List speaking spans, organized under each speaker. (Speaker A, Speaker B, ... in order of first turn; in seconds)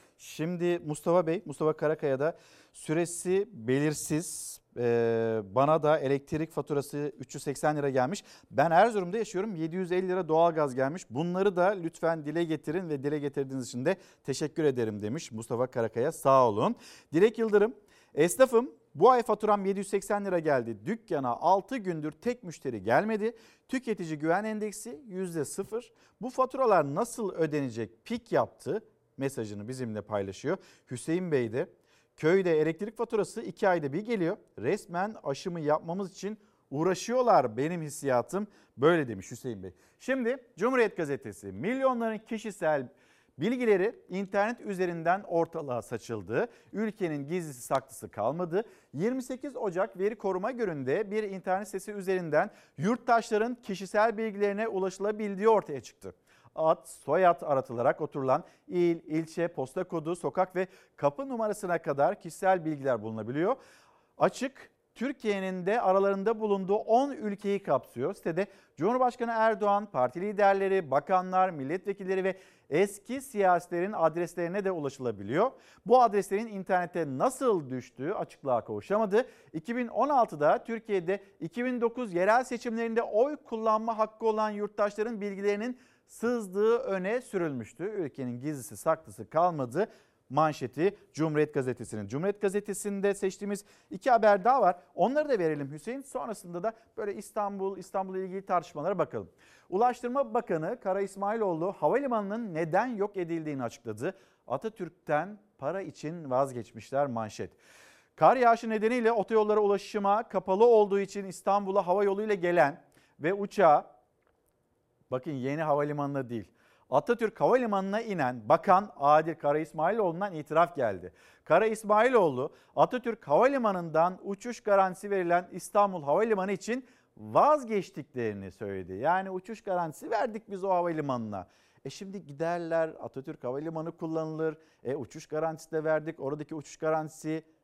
Speaker A: 0.2-63.6, 64.2-107.6, 108.2-113.9, 115.1-137.4